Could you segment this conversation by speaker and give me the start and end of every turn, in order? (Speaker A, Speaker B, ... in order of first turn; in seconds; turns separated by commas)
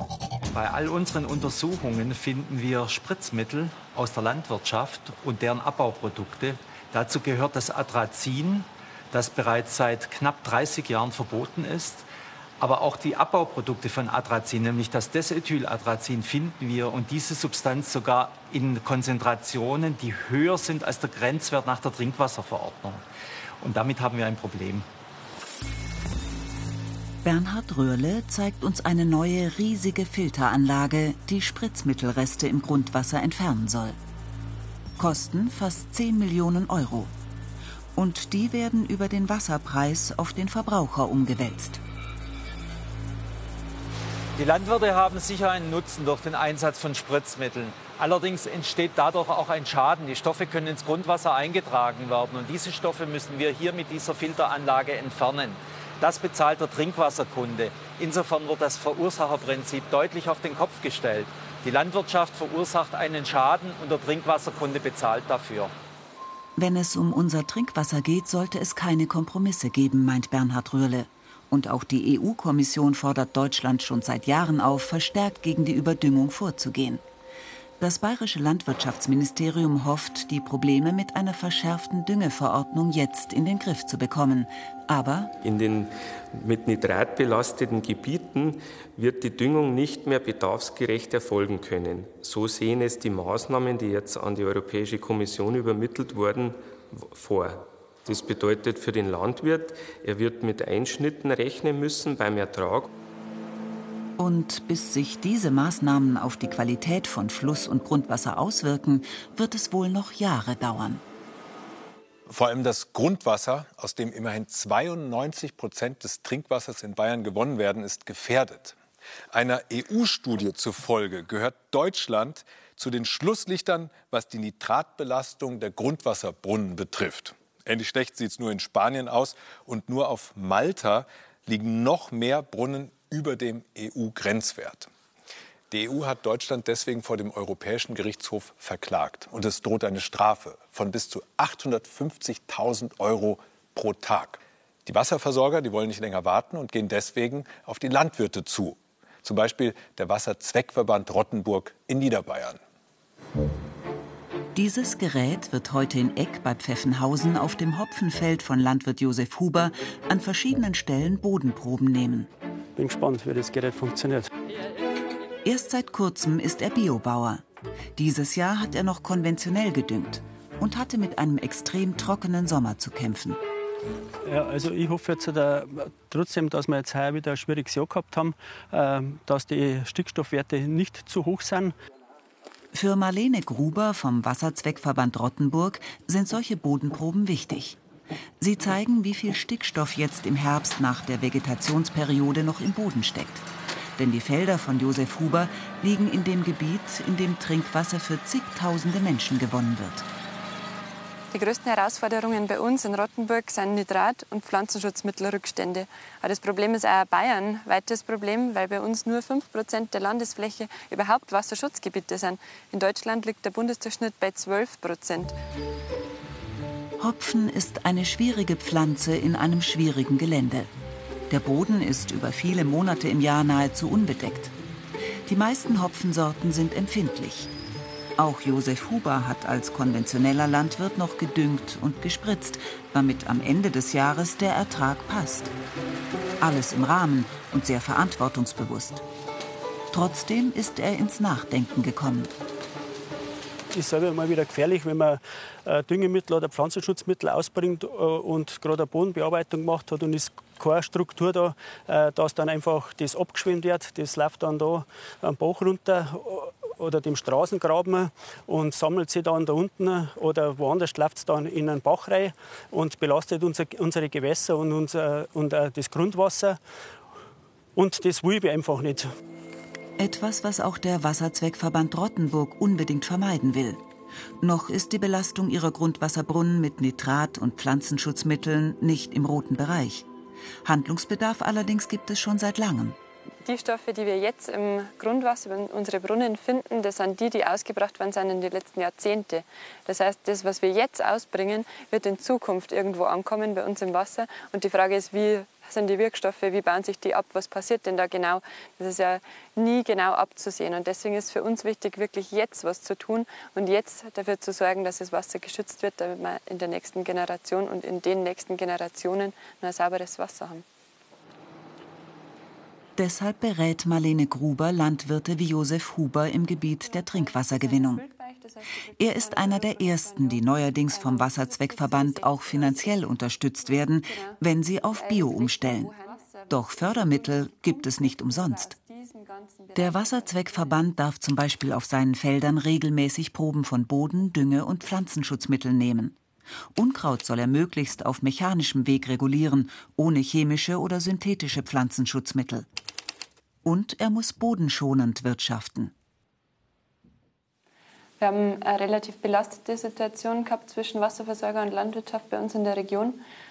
Speaker A: 0.5-12.1, Speaker A: 12.6-23.0, Speaker A: 23.6-24.9, Speaker B: 27.2-34.0, Speaker B: 35.0-37.1, Speaker B: 37.9-41.8, Speaker A: 44.4-65.7, Speaker B: 66.5-77.0, Speaker B: 77.8-85.3, Speaker C: 85.4-102.9, Speaker B: 104.2-111.0, Speaker D: 112.3-118.8, Speaker D: 119.3-134.9, Speaker D: 135.7-152.6, Speaker B: 154.5-162.3, Speaker E: 162.8-164.3, Speaker B: 165.4-167.4, Speaker B: 167.9-173.4, Speaker E: 174.2-181.7, Speaker B: 182.7-187.8, Speaker B: 188.4-193.5, Speaker B: 194.0-200.1, Speaker F: 201.3-215.3, Speaker B: 217.0-220.7, Speaker B: 221.3-224.5, Speaker B: 225.3-227.5, Speaker B: 228.2-235.5, Speaker B: 236.4-239.0, Speaker B: 239.9-242.3, Speaker E: 243.7-266.6, Speaker E: 267.8-269.1, Speaker B: 270.0-273.8, Speaker B: 274.4-280.1, Speaker B: 280.6-283.0, Speaker F: 283.4-310.6, Speaker B: 313.0-318.0, Speaker F: 316.8-323.1, Speaker B: 319.0-325.9, Speaker F: 324.1-324.4, Speaker F: 324.9-330.8, Speaker B: 326.5-328.7, Speaker B: 329.7-336.2, Speaker B: 336.8-342.7, Speaker B: 343.6-345.9, Speaker F: 348.2-353.2